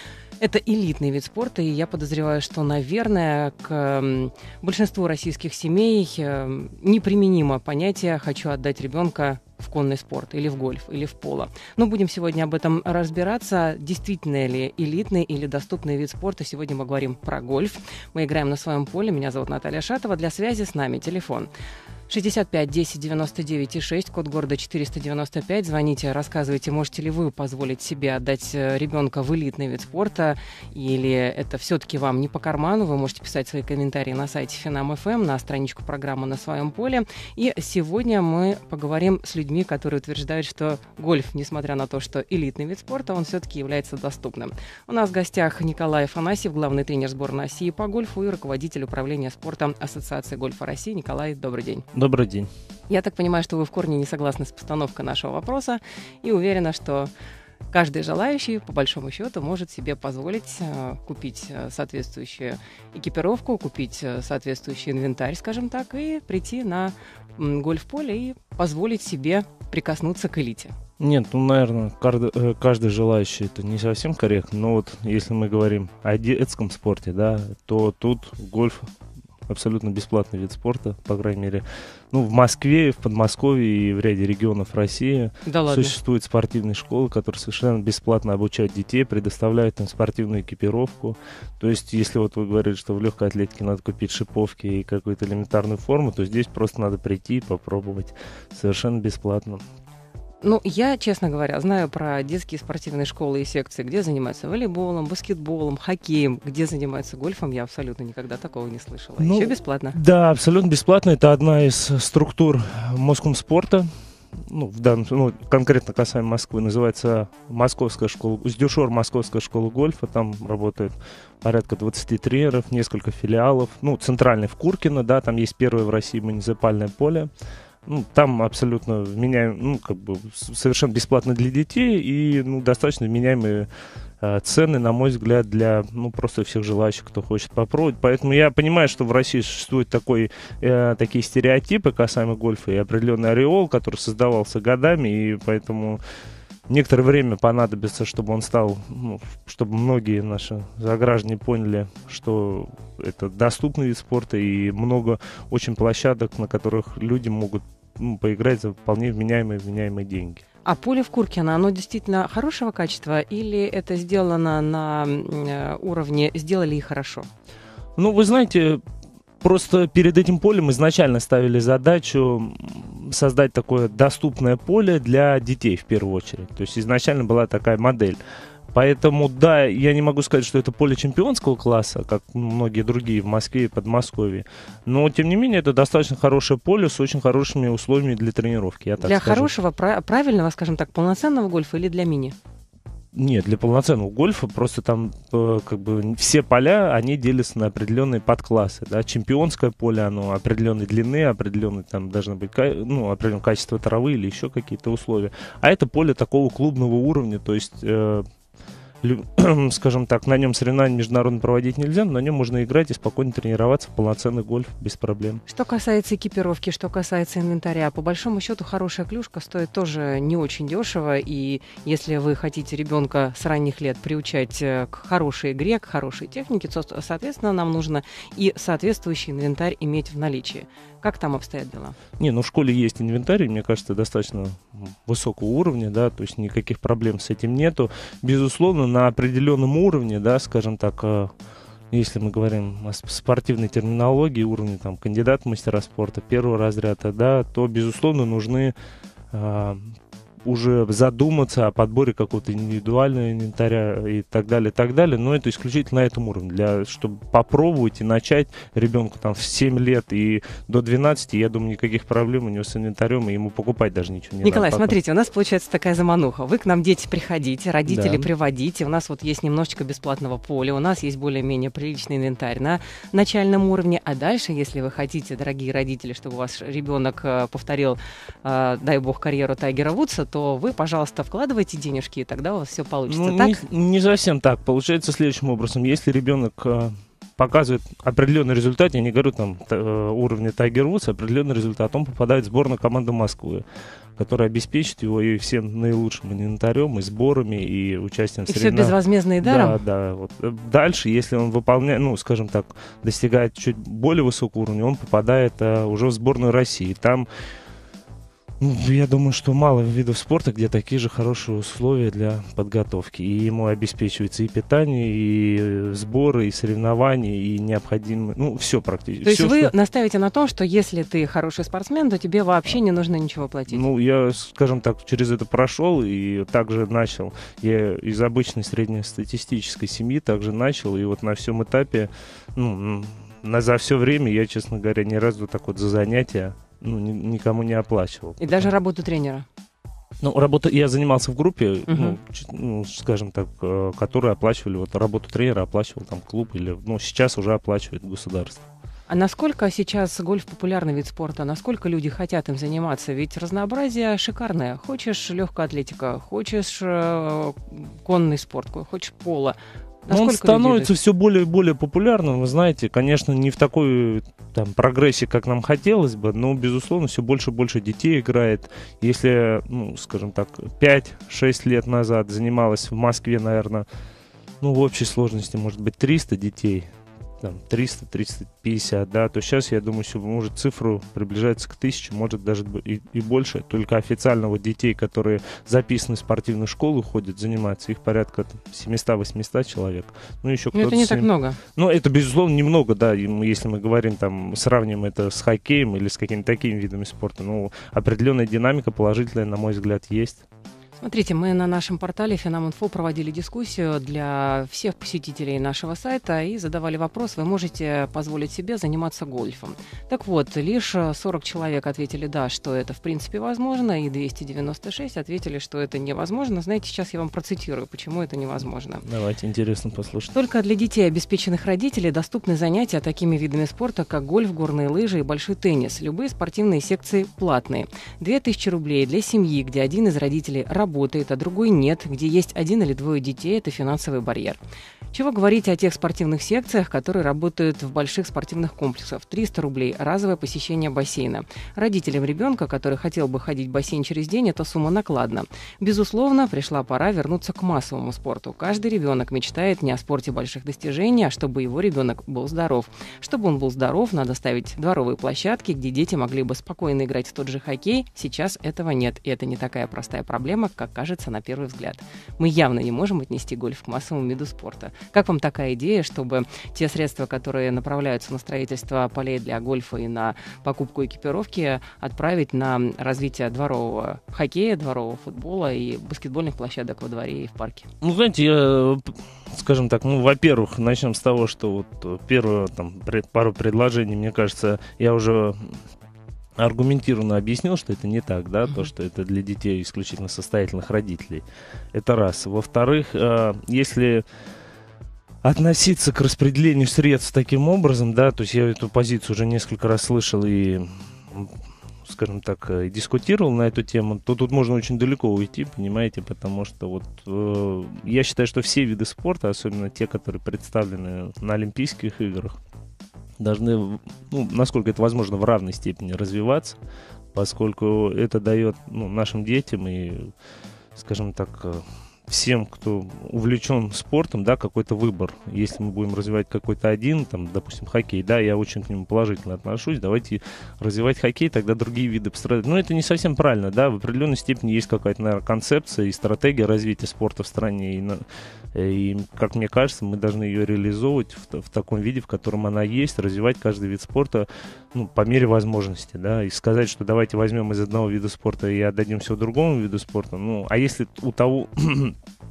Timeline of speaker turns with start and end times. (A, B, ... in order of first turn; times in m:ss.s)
0:00.4-0:21.5 A
0:22.1-0:51.9 A
0:51.9-0:52.5 B
0:52.9-0:57.1 A
0:57.7-1:10.8 A
1:11.0-1:18.9 B
1:19.5-1:39.6 B
1:25.5-1:26.0 A
1:40.4-1:50.0 A
1:49.2-2:07.3 B
2:07.9-2:13.7 B
2:14.2-2:26.0 B
2:26.7-2:40.4 B
2:40.6-2:47.3 A
2:48.0-2:48.8 B
2:49.4-2:58.2 B
2:58.7-3:09.5 B
3:09.0-3:12.4 A
3:13.1-3:28.3 B
3:29.0-3:35.4 B
3:35.5-3:52.0 A
3:52.2-4:01.3 B
4:01.9-4:08.7 B
4:09.3-4:09.9 B
4:10.4-4:25.0 B
4:24.4-4:43.6 A
4:27.9-4:28.3 B
4:43.1-4:53.6 B
4:54.2-5:07.3 B
4:58.5-4:59.8 A
5:08.6-5:19.7 B
5:19.2-5:23.8 A
5:23.7-5:38.7 B
5:38.4-5:39.5 A
5:40.2-5:48.6 B
5:41.9-5:42.2 A
5:49.1-6:00.9 A
6:00.1-6:13.9 B
6:14.6-6:16.9 B
6:17.4-6:40.4 B
6:30.7-6:31.6 A
6:41.0-6:59.0 A
6:59.0-7:00.4 B
7:00.3-7:14.6 A
7:15.1-7:57.9 A
7:58.0-8:05.8 B
8:06.6-8:14.2 B
8:15.4-8:32.6 B
8:33.4-8:36.8 B
8:37.3-8:40.3 B
8:41.0-9:12.2 B